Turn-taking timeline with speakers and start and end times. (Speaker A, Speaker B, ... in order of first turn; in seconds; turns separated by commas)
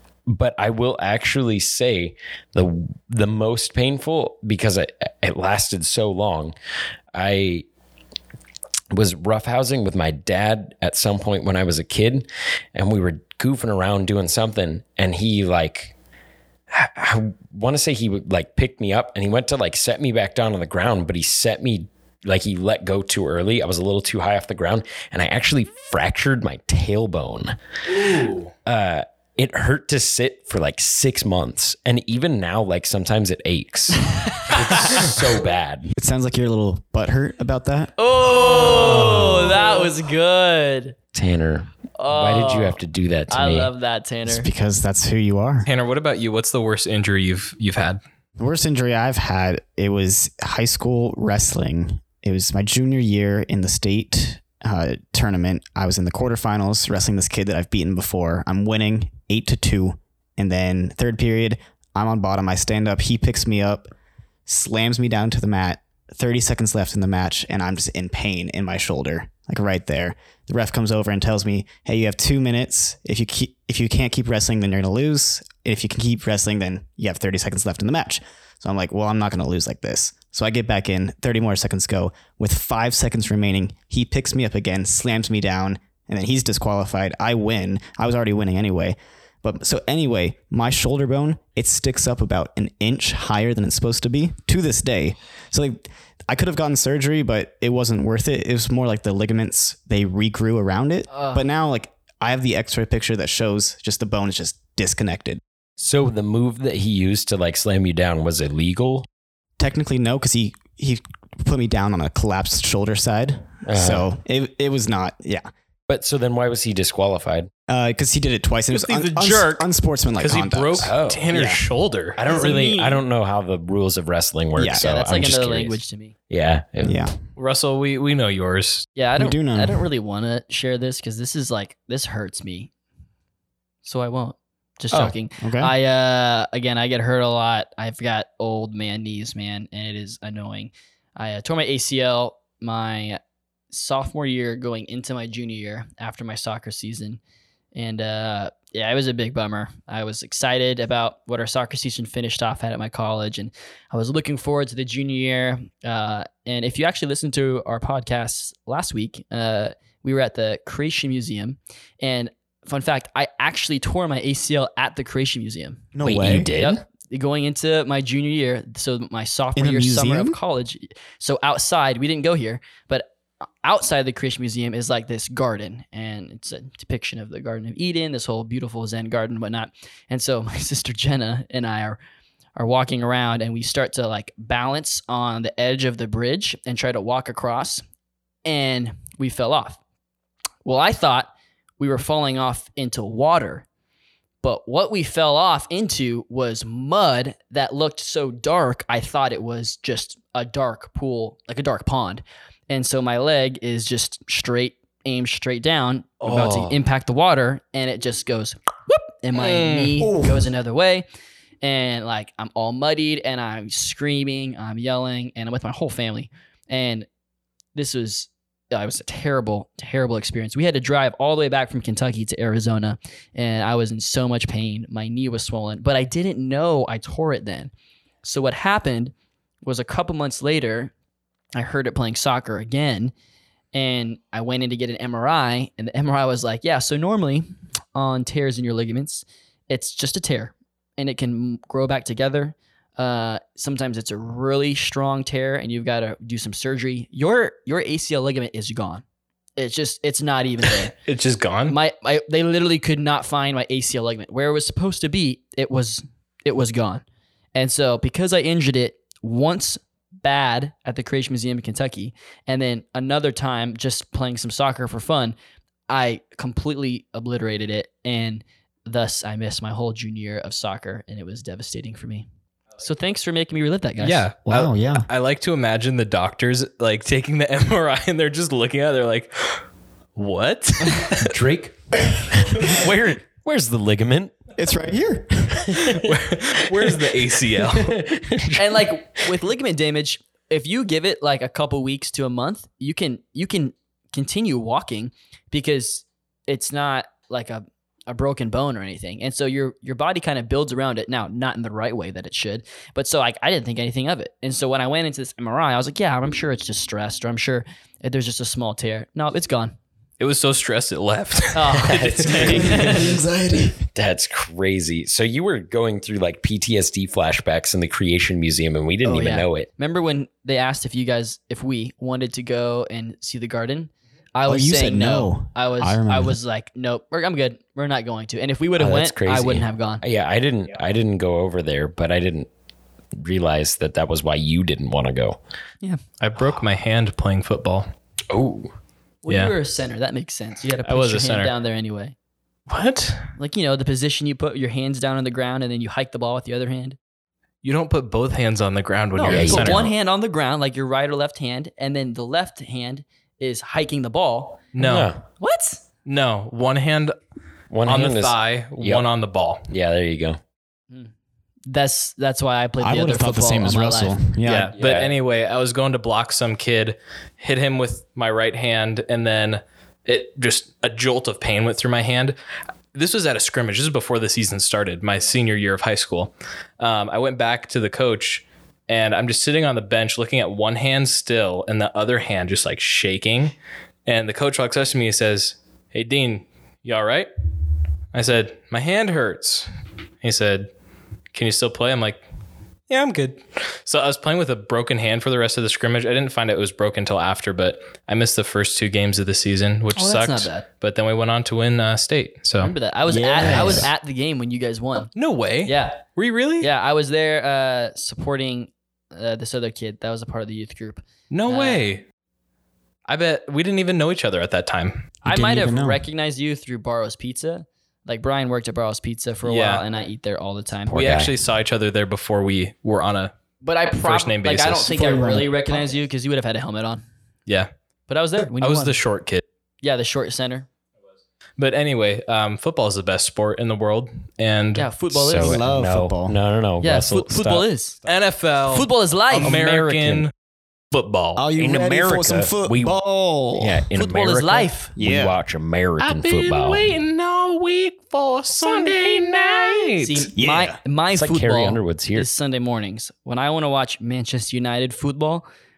Speaker A: 0.3-6.5, Speaker A: 7.1-7.6, Speaker A: 8.9-15.9, Speaker A: 16.7-27.6, Speaker B: 27.9-28.5, Speaker A: 28.6-35.9, Speaker C: 34.1-35.1, Speaker D: 35.9-37.9, Speaker C: 38.0-41.0, Speaker A: 41.1-43.7, Speaker C: 42.0-44.5, Speaker D: 44.3-45.7, Speaker B: 45.6-48.0, Speaker D: 48.4-63.9, Speaker D: 64.5-105.4, Speaker C: 101.1-101.4, Speaker A: 105.8-109.0, Speaker D: 109.6-115.4, Speaker A: 113.7-114.1, Speaker A: 115.9-117.5, Speaker D: 117.7-121.6, Speaker B: 118.7-119.6, Speaker B: 120.2-122.2, Speaker A: 120.8-121.3, Speaker A: 122.2-127.0, Speaker C: 122.2-123.0, Speaker D: 124.5-124.9, Speaker C: 124.7-126.1, Speaker D: 126.8-127.2, Speaker B: 127.3-128.9, Speaker C: 128.9-132.7, Speaker D: 129.2-129.8, Speaker C: 133.8-143.2, Speaker D: 135.4-135.7, Speaker C: 143.7-147.2, Speaker C: 147.7-165.8, Speaker D: 165.9-166.5, Speaker A: 166.0-166.8, Speaker C: 166.6-173.1, Speaker D: 169.6-170.4, Speaker C: 173.6-182.0, Speaker C: 182.6-187.8, Speaker C: 188.4-189.8, Speaker C: 190.6-193.6, Speaker C: 194.4-211.0, Speaker A: 206.2-206.7, Speaker B: 209.3-210.0, Speaker D: 210.0-210.5, Speaker C: 211.6-217.1, Speaker C: 217.7-227.7, Speaker C: 228.2-230.9, Speaker C: 231.5-233.1, Speaker C: 233.7-249.0, Speaker C: 249.6-250.9, Speaker B: 251.0-251.8, Speaker C: 251.7-257.0, Speaker C: 257.5-265.3, Speaker C: 265.9-272.3, Speaker C: 272.8-274.3, Speaker B: 274.0-279.6, Speaker D: 274.4-275.1, Speaker B: 280.1-281.4, Speaker A: 281.1-284.3, Speaker D: 284.6-285.8, Speaker A: 285.6-286.2, Speaker B: 285.8-288.1, Speaker A: 286.7-287.0, Speaker A: 287.6-288.9, Speaker C: 288.6-309.8, Speaker B: 310.2-312.9, Speaker C: 311.5-313.2, Speaker A: 312.3-312.7, Speaker D: 312.4-313.9, Speaker A: 313.9-319.7, Speaker C: 319.0-330.0, Speaker D: 324.4-326.4, Speaker A: 328.8-332.5, Speaker A: 333.1-335.4, Speaker B: 336.2-337.9, Speaker A: 338.3-338.7, Speaker C: 339.2-342.1, Speaker B: 339.3-339.5, Speaker B: 340.6-341.5, Speaker B: 342.7-343.3, Speaker C: 343.4-347.0, Speaker B: 347.6-349.9, Speaker C: 349.1-354.7, Speaker A: 349.3-349.9, Speaker B: 354.7-355.1, Speaker A: 354.8-355.2, Speaker C: 355.4-355.8, Speaker B: 356.1-357.1, Speaker A: 357.7-359.1, Speaker B: 357.8-359.7, Speaker A: 359.7-360.4, Speaker C: 361.7-364.2, Speaker D: 362.8-364.7, Speaker B: 364.4-372.4, Speaker A: 364.8-365.1, Speaker B: 372.9-383.5, Speaker B: 384.1-387.3, Speaker B: 388.1-389.7, Speaker B: 390.2-390.7, Speaker B: 391.3-392.2, Speaker B: 392.9-402.7, Speaker C: 399.9-400.6, Speaker C: 402.6-405.1, Speaker D: 403.1-403.9, Speaker A: 403.4-403.7, Speaker B: 405.1-406.7, Speaker C: 405.6-406.0, Speaker C: 406.6-411.8, Speaker B: 411.3-412.0, Speaker B: 413.1-415.1, Speaker D: 415.2-416.0, Speaker C: 415.2-420.9, Speaker B: 419.4-419.8, Speaker A: 420.9-421.3, Speaker B: 420.9-423.3, Speaker C: 423.6-427.0, Speaker B: 423.9-425.0, Speaker D: 424.9-425.9, Speaker C: 428.1-429.0, Speaker B: 428.5-429.4, Speaker C: 429.8-430.7, Speaker B: 431.6-434.9, Speaker C: 434.7-435.6, Speaker A: 435.1-437.7, Speaker D: 435.3-436.4, Speaker C: 436.8-438.0, Speaker B: 438.1-440.3, Speaker C: 438.7-439.6, Speaker A: 439.4-440.3, Speaker B: 440.9-441.4, Speaker D: 441.4-443.9, Speaker A: 441.6-442.9, Speaker A: 443.6-446.9, Speaker C: 443.9-444.9, Speaker D: 444.9-445.4, Speaker B: 446.0-450.2, Speaker A: 448.6-449.2, Speaker C: 450.0-455.4, Speaker D: 450.4-450.8, Speaker A: 451.1-452.3